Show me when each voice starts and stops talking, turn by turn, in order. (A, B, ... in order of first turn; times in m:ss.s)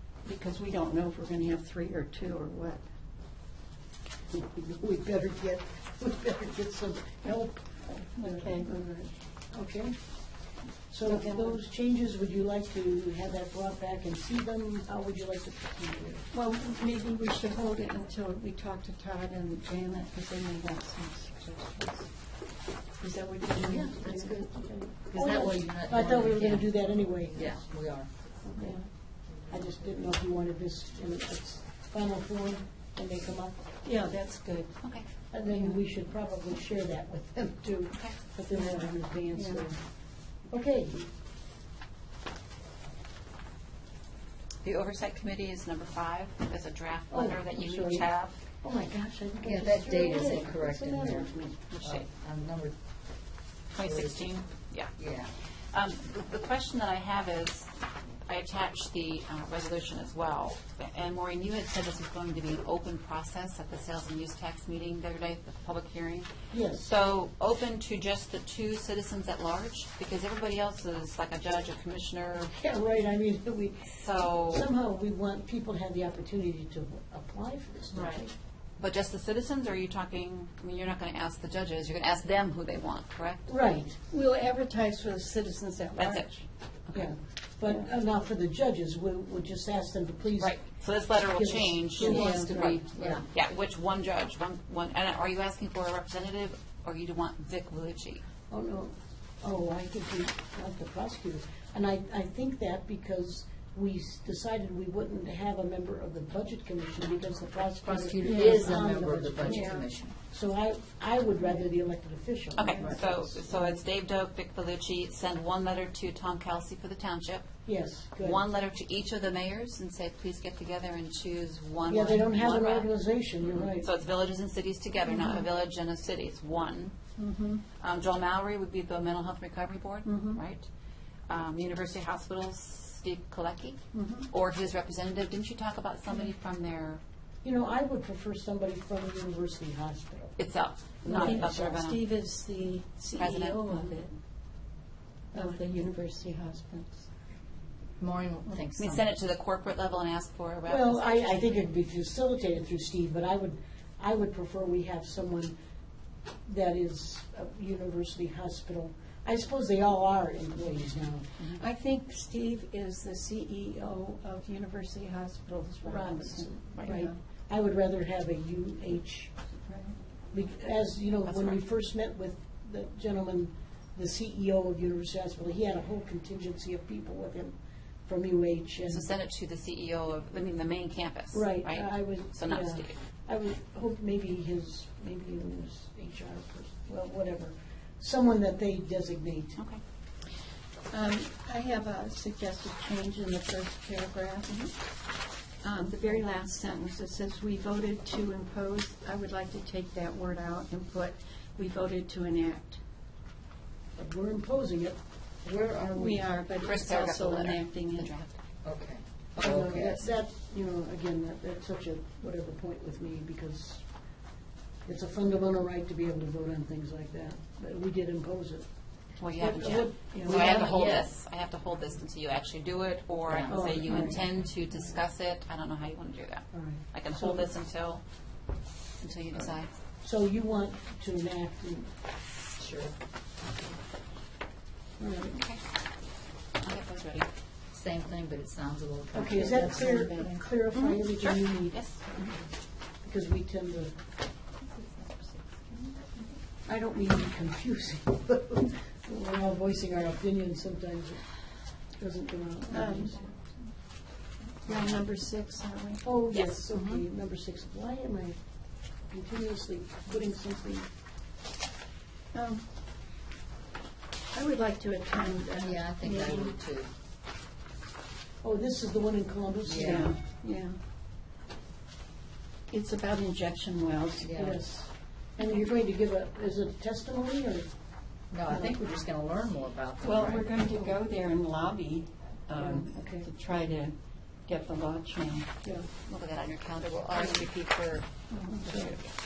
0:00.2-0:02.8 A
0:04.3-0:10.2 B
0:07.2-0:08.7 A
0:10.9-0:16.2 B
0:11.0-0:11.6 A
0:16.3-0:22.2 A
0:23.0-0:24.5 A
0:23.7-0:28.1 C
0:23.7-0:27.6 B
0:28.4-0:33.7 B
0:28.6-0:28.9 A
0:33.8-0:34.9 A
0:34.8-0:35.1 D
0:35.3-0:39.8 B
0:35.5-0:35.8 A
0:39.3-0:39.6 A
0:40.4-0:41.1 B
0:44.6-0:48.4 D
0:47.1-0:48.1 B
0:48.6-0:51.7 B
0:49.4-0:52.8 C
0:51.7-0:52.1 D
0:53.7-0:54.9 D
0:53.8-0:54.2 C
0:55.0-0:55.3 C
0:55.7-1:12.5 D
1:06.5-1:06.9 B
1:12.5-1:18.3 B
1:13.9-1:14.7 D
1:17.9-1:18.2 C
1:18.8-1:23.4 D
1:23.5-1:24.0 B
1:24.1-1:26.4 A
1:26.0-1:26.3 D
1:26.9-1:30.6 B
1:30.4-1:38.2 D
1:31.2-1:33.2 B
1:32.0-1:32.5 A
1:32.9-1:33.2 C
1:38.5-1:53.8 B
1:47.8-1:50.1 C
1:48.2-1:48.7 A
1:49.4-1:49.8 A
1:52.5-1:57.6 D
1:57.6-1:58.4 B
1:58.2-2:07.0 D
2:01.8-2:03.9 B
2:05.1-2:05.4 A
2:07.2-2:07.6 A
2:07.8-2:10.7 D
2:10.0-2:10.4 A
2:11.3-2:13.8 D
2:13.9-2:14.3 A
2:14.3-2:17.0 D
2:17.4-2:20.4 B
2:20.4-2:22.0 D
2:21.0-2:21.6 B
2:21.0-2:24.2 A
2:23.2-2:23.9 D
2:25.3-2:25.6 B
2:25.3-2:27.0 A
2:28.0-2:29.0 C
2:28.8-2:31.0 D
2:30.6-2:35.5 B
2:36.4-2:41.3 B
2:41.6-2:47.2 A
2:45.8-2:49.3 B
2:49.6-2:50.0 A
2:50.3-2:59.1 B
2:51.2-2:51.6 D
2:58.9-3:03.0 D
3:01.3-3:09.6 B
3:10.9-3:14.7 A
3:15.6-3:22.8 A
3:24.0-3:25.0 B
3:25.4-3:26.2 C
3:25.9-3:28.1 A
3:26.6-3:28.3 D
3:28.6-3:30.0 C
3:29.4-3:33.8 B
3:34.8-3:38.6 B
3:39.2-3:48.0 D
3:39.3-3:41.0 B
3:40.3-3:41.1 C
3:43.2-3:43.6 C
3:43.5-3:44.2 B
3:46.5-3:47.5 B
3:49.0-3:49.7 D
3:50.0-3:51.9 B
3:52.6-3:52.9 C
3:55.0-3:55.4 B
3:55.3-3:55.6 D
3:56.6-3:57.3 D
3:57.7-4:00.4 C
3:59.1-4:03.9 B
3:59.4-4:00.4 A
4:00.7-4:02.1 D
4:04.7-4:05.2 D
4:05.7-4:06.2 D
4:06.6-4:11.3 B
4:12.0-4:13.3 B
4:12.7-4:13.2 A
4:14.6-4:16.4 A
4:16.0-4:18.4 B
4:19.1-4:20.9 B
4:22.3-4:22.6 A
4:24.3-4:26.6 A
4:25.6-4:26.9 C
4:28.4-4:30.1 B
4:29.6-4:30.1 C
4:29.7-4:30.8 A
4:32.7-4:34.4 A
4:34.2-4:34.6 C
4:34.3-4:37.7 B
4:38.3-4:40.5 C
4:38.5-4:38.9 B
4:40.0-4:45.5 A
4:42.9-4:43.3 B
4:45.6-4:45.9 B
4:46.0-4:48.1 D
4:48.3-4:48.8 A
4:48.6-4:49.1 D
4:48.6-4:48.9 B